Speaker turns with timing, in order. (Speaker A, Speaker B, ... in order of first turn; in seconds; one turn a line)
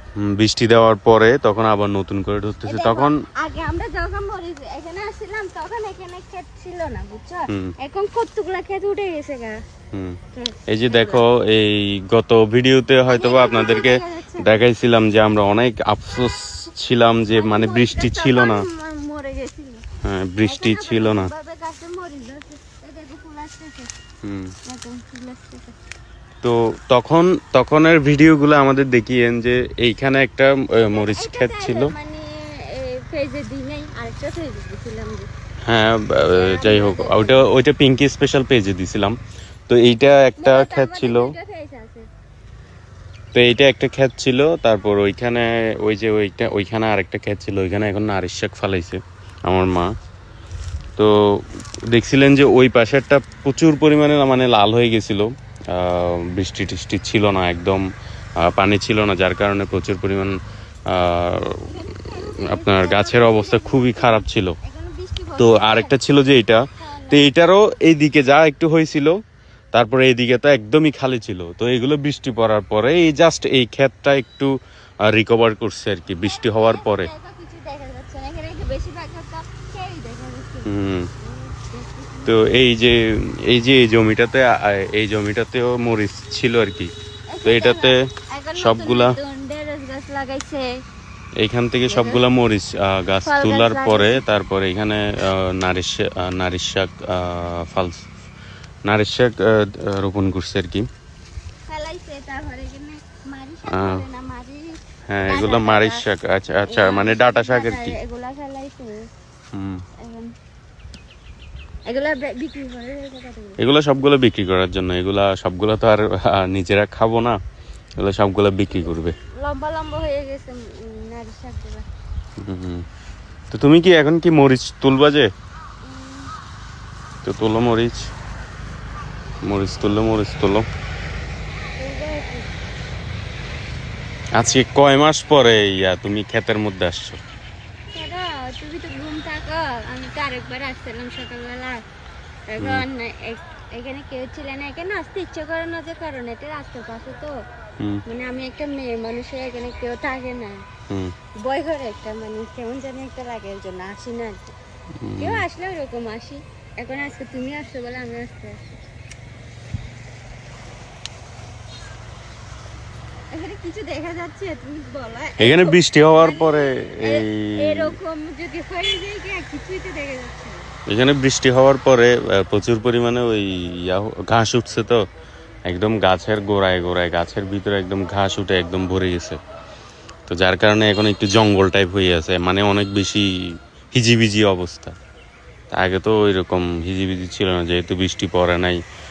Speaker A: 0.2-3.3
Speaker B: 2.6-9.6
Speaker A: 7.5-7.8
Speaker A: 9.9-18.7
Speaker B: 10.3-11.2
Speaker B: 13.1-14.6
Speaker B: 17.3-19.9
Speaker A: 20.0-21.3
Speaker B: 20.4-23.9
Speaker A: 24.2-24.6
Speaker B: 24.6-25.8
Speaker A: 26.4-31.9
Speaker B: 30.9-35.3
Speaker A: 35.7-39.2
Speaker B: 36.3-37.5
Speaker A: 39.7-41.3
Speaker B: 40.4-42.1
Speaker A: 43.3-49.9
Speaker A: 51.0-57.9
Speaker A: 58.4-64.6
Speaker B: 61.6-66.0
Speaker A: 65.4-69.2
Speaker B: 66.8-67.3
Speaker A: 69.7-74.5
Speaker A: 75.1-77.1
Speaker B: 76.2-82.5
Speaker A: 80.7-81.1
Speaker A: 82.2-86.9
Speaker B: 87.3-90.8
Speaker A: 87.4-89.2
Speaker A: 91.4-98.1
Speaker B: 91.9-92.2
Speaker B: 93.2-94.2
Speaker A: 98.9-100.9
Speaker B: 101.7-106.0
Speaker A: 103.7-104.0
Speaker A: 105.1-108.0
Speaker B: 106.7-109.1
Speaker A: 109.5-109.8
Speaker B: 110.0-110.3
Speaker B: 111.8-113.6
Speaker A: 113.6-117.4
Speaker A: 118.0-119.2
Speaker B: 119.4-121.9
Speaker A: 122.4-122.8
Speaker A: 123.5-125.3
Speaker B: 125.8-126.3
Speaker A: 127.2-128.1
Speaker A: 129.4-130.7
Speaker B: 131.8-132.5
Speaker A: 134.3-137.2
Speaker B: 137.9-141.8
Speaker B: 142.5-147.4
Speaker A: 142.6-142.9
Speaker B: 148.1-150.7
Speaker A: 150.9-151.1
Speaker B: 151.4-154.6
Speaker A: 155.0-155.4
Speaker B: 155.2-158.6
Speaker B: 163.3-170.7
Speaker A: 165.4-167.9
Speaker A: 170.9-175.1
Speaker A: 175.7-179.4
Speaker A: 180.3-185.0
Speaker A: 185.7-188.8